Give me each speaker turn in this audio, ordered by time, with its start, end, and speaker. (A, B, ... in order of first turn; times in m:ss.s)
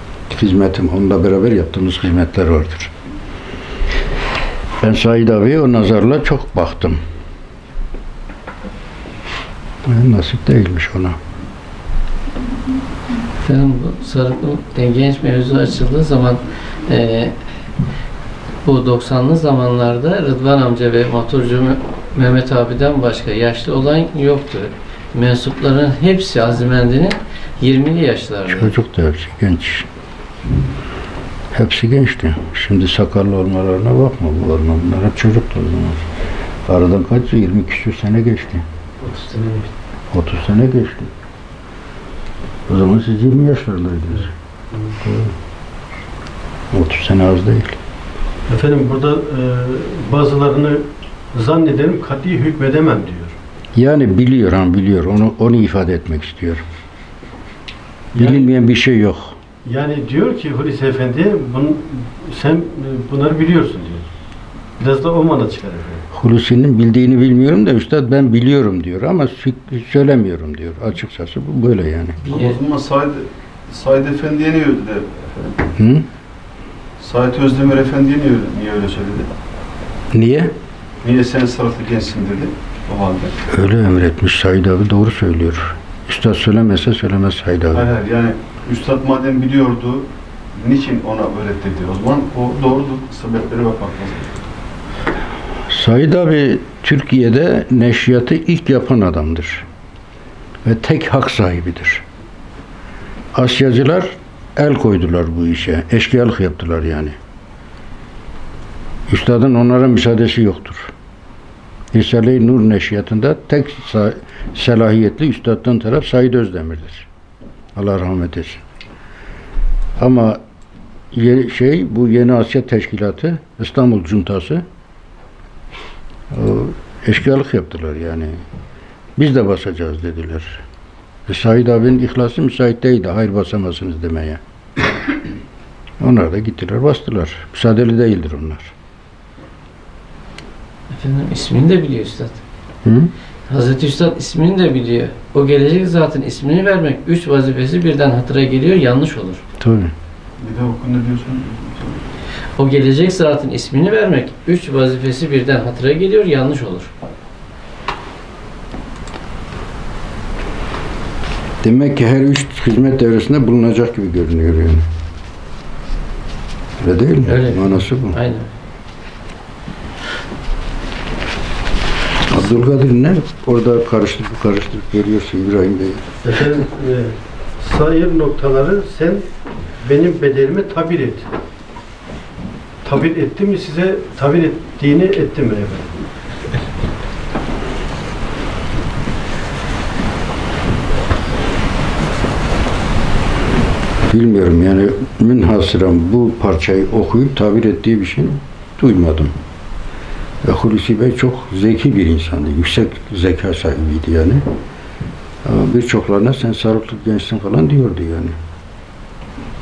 0:00.3-0:02.9 A
0:04.8-0:07.0 A
0:09.8-0:11.2 A
0:13.4-0:17.3 B
0:18.6-0:28.7 B
0:28.5-0:29.9 A
0:31.5-0:36.0 A
0:36.7-0:38.6 A
0:40.1-0:41.1 A
0:42.7-0:44.3 A
0:46.7-0:47.8 A
0:48.5-0:53.4 C
0:53.7-0:56.6 A
0:58.2-0:58.5 C
0:58.2-0:59.4 A
0:59.6-1:04.0 C
1:04.8-1:06.0 C
1:06.1-1:12.3 A
1:12.2-1:15.6 D
1:15.8-1:16.1 A
1:17.0-1:19.3 D
1:20.1-1:20.6 A
1:21.0-1:23.3 D
1:23.5-1:27.9 A
1:27.7-1:34.3 D
1:35.7-1:39.6 A
1:40.6-1:42.0 A
1:43.3-1:47.2 A
1:49.1-1:50.9 A
1:51.9-1:57.1 A
1:57.7-1:58.6 A
2:00.0-2:00.4 A
2:01.1-2:04.6 A
2:06.3-2:08.4 A
2:09.2-2:10.6 A
2:11.3-2:14.4 A
2:16.0-2:18.7 A
2:20.9-2:22.4 B
2:22.8-2:23.1 A
2:23.5-2:29.4 B
2:29.6-2:29.9 A
2:30.4-2:32.0 D
2:32.6-2:36.9 B
2:41.6-2:44.9 A
2:46.8-2:48.2 A
2:47.3-2:48.5 B
2:52.3-2:56.0 A
2:56.2-2:59.2 C
2:59.8-3:01.3 C
3:02.8-3:06.0 C
3:14.1-3:19.3 A
3:20.4-3:24.4 A
3:25.4-3:28.4 A